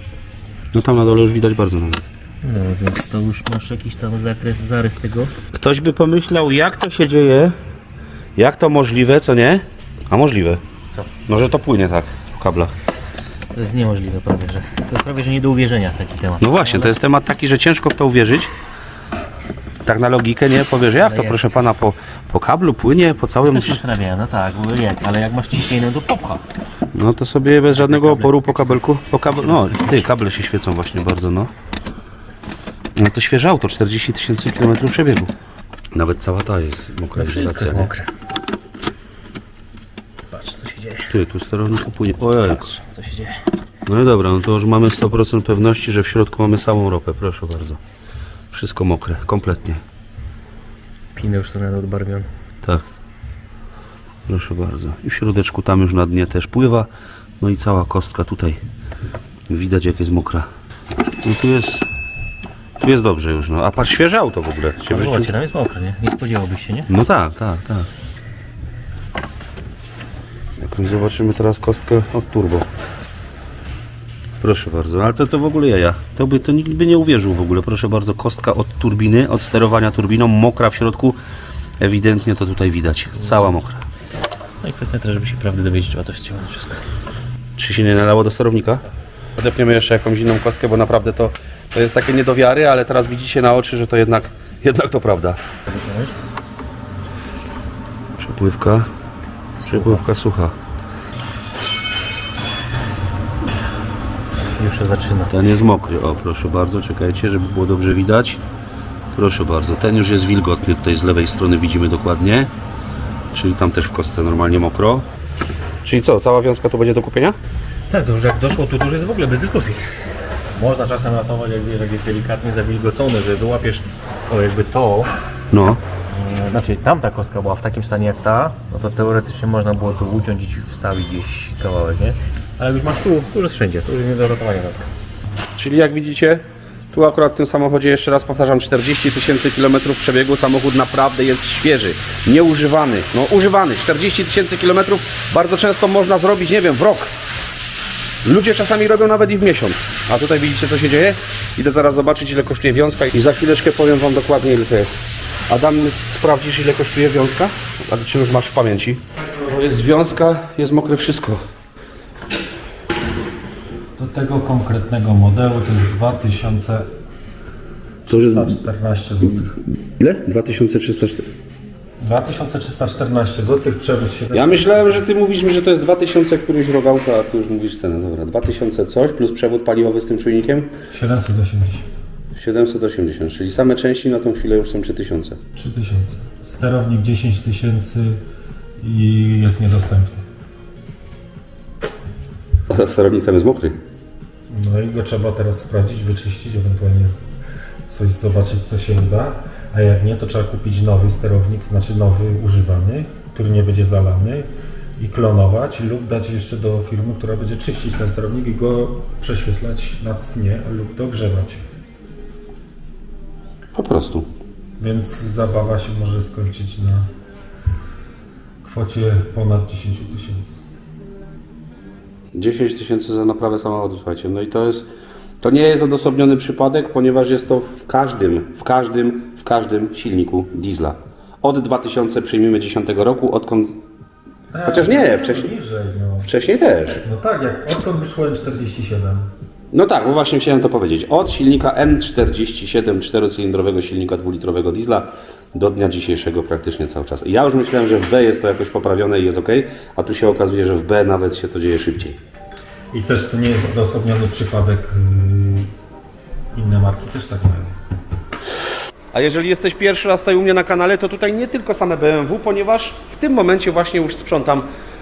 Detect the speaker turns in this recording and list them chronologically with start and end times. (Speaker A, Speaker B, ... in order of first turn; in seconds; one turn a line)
Speaker A: 0.7-2.0
Speaker B: 2.4-5.3
Speaker A: 5.5-7.5
Speaker A: 8.4-12.7
Speaker B: 13.5-17.0
Speaker A: 16.4-18.5
Speaker A: 19.9-23.8
Speaker B: 21.0-21.6
Speaker B: 23.4-26.4
Speaker A: 26.9-31.5
Speaker B: 27.7-30.1
Speaker A: 33.0-35.3
Speaker A: 35.9-37.9
Speaker B: 37.2-38.1
Speaker B: 40.3-41.1
Speaker A: 41.1-42.8
Speaker B: 42.7-43.4
Speaker A: 43.9-47.8
Speaker A: 48.5-49.8
Speaker B: 51.1-52.3
Speaker A: 54.3-56.9
Speaker A: 57.4-58.6
Speaker A: 59.5-60.5
Speaker A: 61.2-61.9
Speaker A: 62.8-65.3
Speaker B: 64.9-66.9
Speaker A: 66.9-67.9
Speaker A: 70.6-72.7
Speaker A: 74.4-81.2
Speaker A: 81.8-83.8
Speaker B: 84.6-86.8
Speaker A: 87.6-88.8
Speaker A: 89.4-95.4
Speaker B: 95.7-96.2
Speaker A: 98.2-98.9
Speaker B: 99.6-100.0
Speaker A: 99.6-100.5
Speaker B: 104.6-105.5
Speaker A: 105.3-108.4
Speaker A: 109.1-112.5
Speaker A: 113.3-115.1
Speaker A: 115.8-117.4
Speaker B: 117.9-119.9
Speaker B: 120.5-125.1
Speaker A: 125.5-125.8
Speaker B: 126.1-134.9
Speaker A: 135.6-147.1
Speaker A: 148.2-161.4
Speaker C: 164.0-166.8
Speaker A: 168.1-168.6
Speaker C: 168.1-169.5
Speaker A: 169.3-171.3
Speaker C: 172.0-175.0
Speaker A: 174.3-180.8
Speaker C: 180.9-181.9
Speaker A: 182.3-185.4
Speaker C: 185.6-188.2
Speaker C: 188.8-190.2
Speaker A: 192.7-193.8
Speaker C: 194.5-197.1
Speaker C: 197.9-204.5
Speaker C: 205.0-211.6
Speaker A: 213.7-214.3
Speaker C: 214.8-217.1
Speaker C: 218.6-220.6
Speaker A: 222.3-224.9
Speaker A: 225.4-233.8
Speaker C: 234.5-236.3
Speaker A: 234.7-235.5
Speaker A: 236.2-237.1
Speaker C: 237.0-239.3
Speaker A: 239.7-252.2
Speaker C: 252.9-255.7
Speaker C: 256.5-257.8
Speaker A: 259.1-264.7